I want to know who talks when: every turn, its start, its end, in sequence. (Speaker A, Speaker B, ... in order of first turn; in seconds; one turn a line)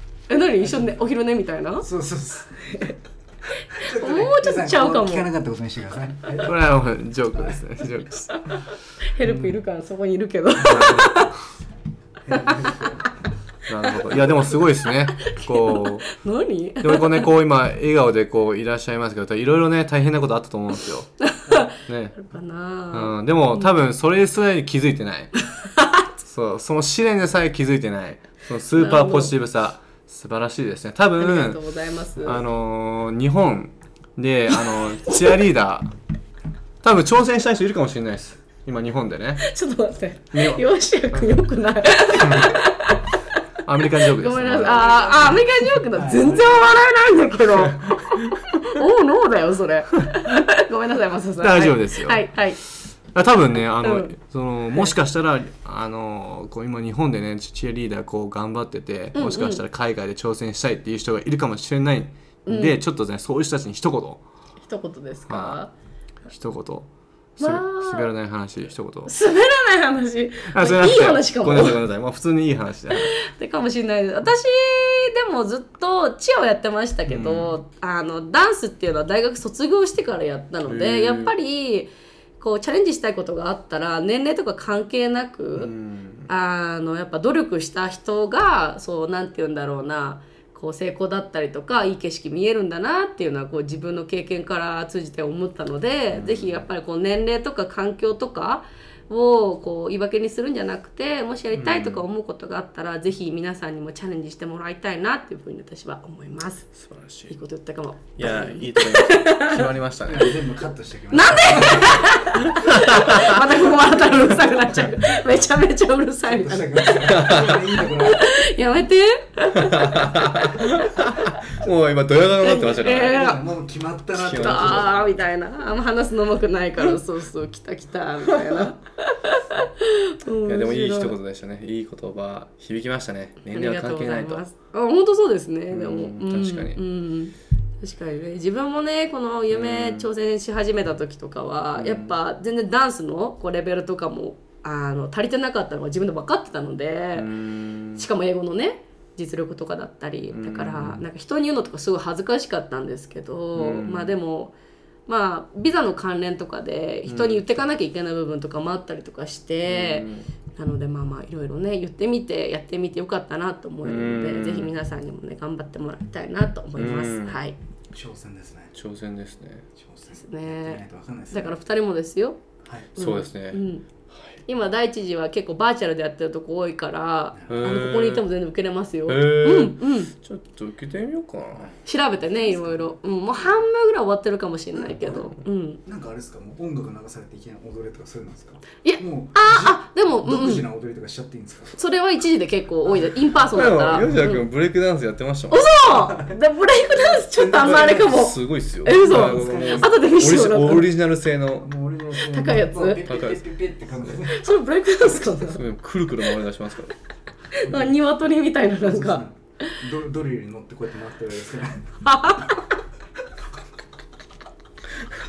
Speaker A: 0.3-1.9
Speaker B: 1.8-2.9
Speaker A: 2.7-2.9
Speaker A: 3.6-5.3
Speaker B: 3.7-6.6
Speaker C: 6.4-8.4
Speaker A: 8.3-11.3
Speaker C: 9.2-9.6
Speaker C: 10.6-11.4
Speaker B: 12.2-13.1
Speaker C: 13.7-16.1
Speaker A: 15.2-17.3
Speaker C: 16.8-21.1
Speaker A: 21.2-23.7
Speaker C: 21.8-22.1
Speaker C: 22.9-25.4
Speaker A: 25.8-26.0
Speaker C: 26.2-31.6
Speaker A: 28.8-29.3
Speaker A: 31.2-32.4
Speaker C: 32.2-35.9
Speaker C: 36.8-39.5
Speaker A: 39.4-43.0
Speaker C: 40.3-41.3
Speaker C: 42.1-42.7
Speaker C: 43.6-45.5
Speaker A: 44.0-52.6
Speaker B: 45.9-46.8
Speaker C: 47.5-48.4
Speaker C: 51.4-52.3
Speaker C: 53.1-64.2
Speaker A: 53.8-54.1
Speaker A: 59.1-59.6
Speaker A: 62.5-62.8
Speaker A: 64.6-65.7
Speaker C: 65.3-65.6
Speaker C: 66.3-69.1
Speaker A: 67.4-68.1
Speaker A: 69.1-71.8
Speaker C: 70.5-73.1
Speaker A: 72.9-85.7
Speaker C: 77.1-77.6
Speaker C: 80.7-81.3
Speaker C: 85.6-86.3
Speaker A: 86.3-106.7
Speaker C: 96.1-96.6
Speaker C: 101.5-102.0
Speaker C: 106.8-107.3
Speaker A: 107.3-109.7
Speaker C: 108.2-110.4
Speaker B: 110.0-112.3
Speaker A: 111.1-120.7
Speaker C: 112.5-113.4
Speaker B: 113.8-114.7
Speaker B: 116.3-118.4
Speaker C: 117.0-117.7
Speaker C: 119.5-123.3
Speaker A: 122.4-123.4
Speaker B: 122.9-125.1
Speaker C: 124.1-124.9
Speaker A: 124.3-131.1
Speaker C: 130.4-134.4
Speaker A: 133.5-147.3
Speaker C: 135.7-136.8
Speaker C: 139.5-140.1
Speaker C: 141.8-142.1
Speaker C: 147.1-148.1
Speaker A: 147.9-154.5
Speaker C: 150.3-151.0
Speaker C: 153.6-154.1
Speaker A: 155.1-167.6
Speaker C: 157.1-157.6
Speaker C: 159.7-160.3
Speaker C: 163.8-164.7
Speaker C: 166.8-167.4
Speaker B: 167.9-168.8
Speaker C: 168.8-169.7
Speaker B: 169.8-171.6
Speaker A: 170.2-172.4
Speaker B: 172.6-172.9
Speaker A: 172.9-173.8
Speaker C: 172.9-174.4
Speaker A: 174.5-180.1
Speaker B: 177.3-177.8
Speaker C: 177.5-178.3
Speaker C: 179.1-181.7
Speaker B: 181.6-182.9
Speaker A: 181.9-185.8
Speaker B: 184.9-185.2
Speaker B: 185.8-191.8
Speaker A: 188.8-190.7
Speaker A: 191.8-194.4
Speaker C: 193.5-195.8
Speaker A: 195.5-200.9
Speaker B: 197.1-198.2
Speaker C: 197.7-201.7
Speaker B: 199.1-200.0
Speaker B: 201.6-204.5
Speaker A: 202.3-203.1
Speaker C: 203.1-203.4
Speaker A: 204.3-205.6
Speaker C: 205.5-206.9
Speaker A: 207.5-209.8
Speaker B: 207.6-208.0
Speaker B: 208.8-212.0
Speaker A: 212.1-212.6